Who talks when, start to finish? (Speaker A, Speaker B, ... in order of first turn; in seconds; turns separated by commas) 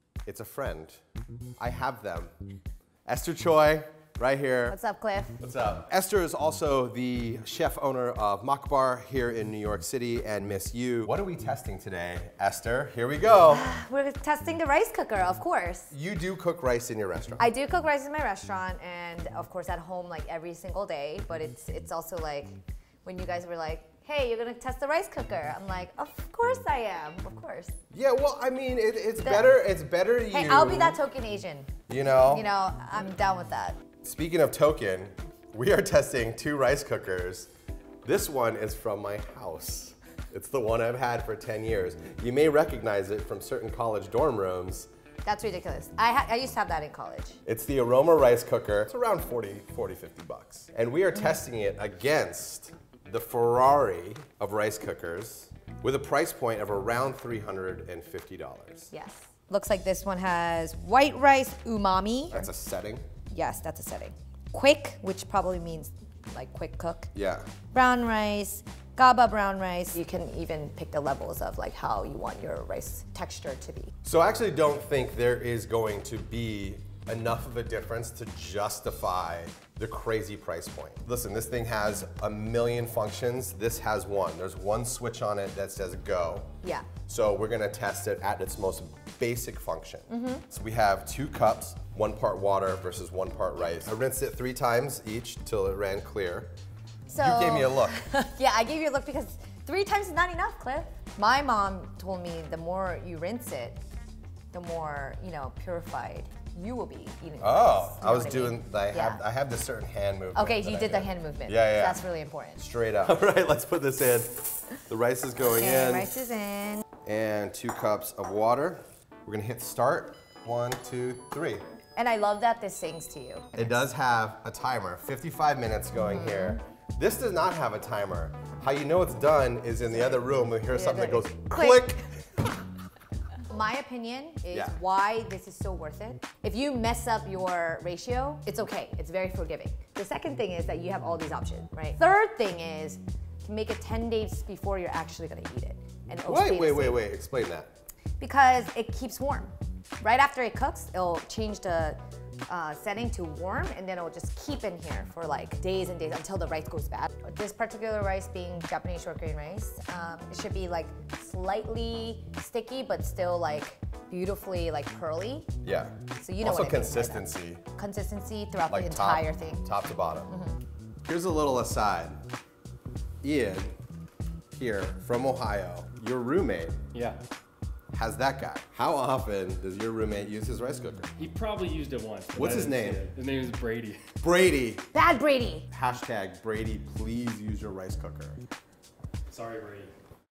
Speaker A: 0.3-1.0, Speaker A: 1.6-2.3, Speaker A: 3.1-4.8, Speaker B: 4.7-5.4, Speaker A: 5.4-13.7, Speaker B: 13.5-15.9, Speaker A: 15.9-17.5, Speaker B: 17.4-27.7, Speaker A: 27.9-31.0, Speaker B: 29.2-29.6, Speaker B: 30.3-33.8, Speaker A: 31.9-32.5, Speaker A: 34.0-37.5, Speaker A: 38.0-44.9, Speaker B: 45.2-47.4, Speaker A: 47.5-58.9, Speaker B: 58.9-62.5, Speaker A: 62.3-63.0, Speaker B: 63.3-67.1, Speaker A: 67.2-67.5, Speaker B: 67.7-73.9, Speaker A: 74.0-86.5, Speaker B: 86.6-86.9, Speaker A: 87.0-96.5, Speaker B: 90.1-90.5, Speaker B: 97.1-103.8, Speaker A: 97.2-98.0, Speaker B: 104.5-109.2, Speaker A: 107.4-112.0, Speaker B: 110.3-112.6, Speaker A: 112.6-116.1, Speaker B: 115.5-116.9, Speaker A: 117.0-121.6, Speaker B: 122.0-123.8, Speaker A: 123.5-132.2, Speaker B: 126.0-126.6, Speaker B: 129.9-131.9, Speaker B: 133.5-147.0, Speaker A: 146.2-147.7, Speaker B: 148.2-165.5, Speaker A: 165.6-167.6, Speaker B: 166.2-169.7, Speaker A: 168.7-170.4, Speaker B: 170.3-170.6, Speaker A: 171.1-172.2, Speaker A: 173.2-173.8, Speaker A: 174.5-176.8, Speaker C: 176.9-177.2, Speaker A: 177.9-181.1, Speaker C: 181.2-184.1, Speaker A: 182.3-183.0, Speaker A: 184.2-184.9, Speaker B: 184.9-185.7, Speaker A: 185.7-188.4, Speaker C: 189.3-189.9